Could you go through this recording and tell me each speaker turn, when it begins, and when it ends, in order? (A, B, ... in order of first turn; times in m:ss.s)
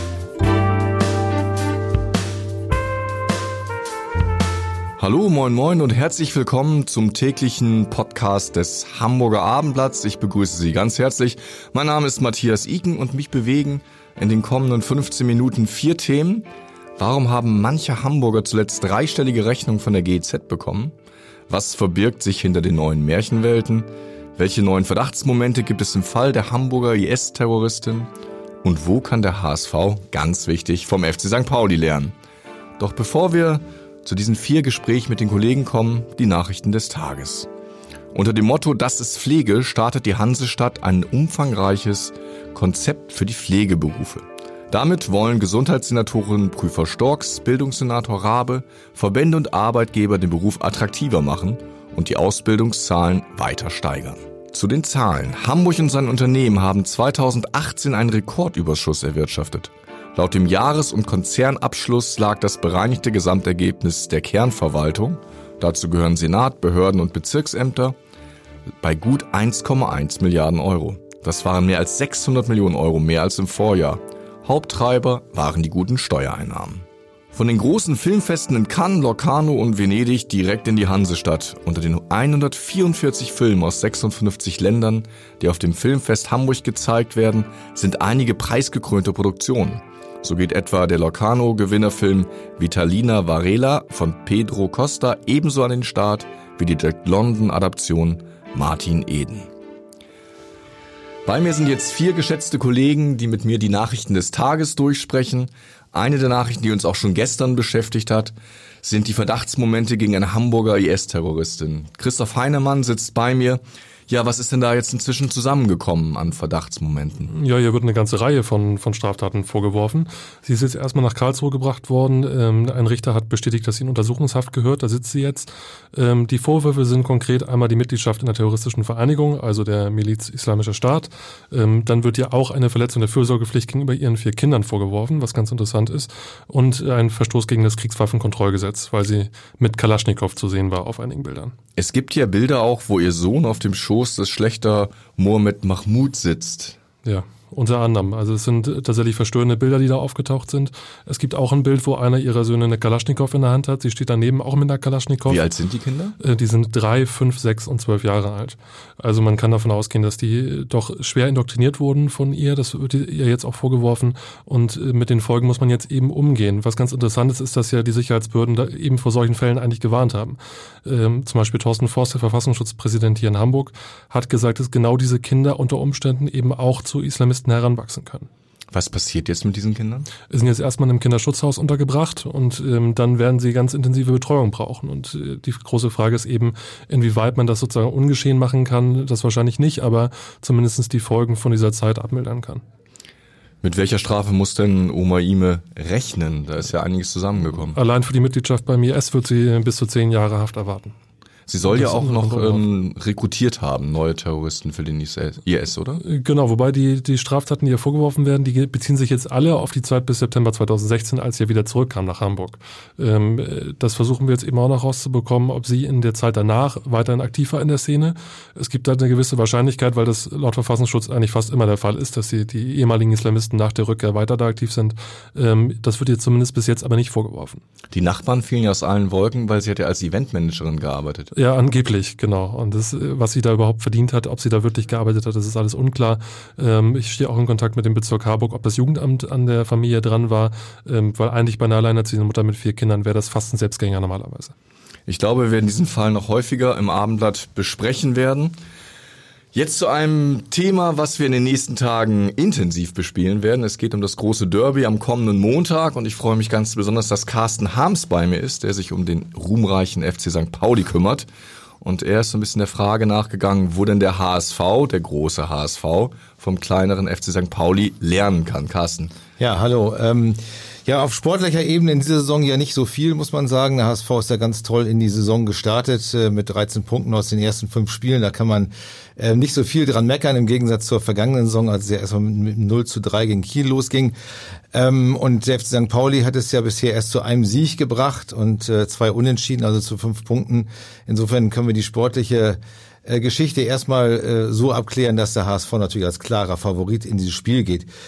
0:05.0-0:20.9 A
0:21.5-0:28.1 A
0:28.6-0:32.1 A
0:32.8-0:37.5 A
0:38.1-1:08.0 A
1:08.8-1:39.5 A
1:41.2-1:57.3 A
1:57.3-2:21.5 B
2:21.8-2:26.8 A
2:27.0-2:35.4 B
2:35.2-2:36.1 A
2:36.2-2:58.3 B
2:58.7-3:00.1 A
3:00.3-3:12.6 B
3:13.6-3:17.8 A
3:17.7-3:20.9 B
3:21.5-3:26.0 A
3:21.7-3:22.6 B
3:26.0-3:47.6 B
3:47.9-3:51.3 A
3:51.4-4:04.5 B
4:05.1-4:08.6 A
4:09.5-4:21.3 A
4:21.8-4:29.1 A
4:29.4-4:44.2 C
4:44.7-4:57.9 C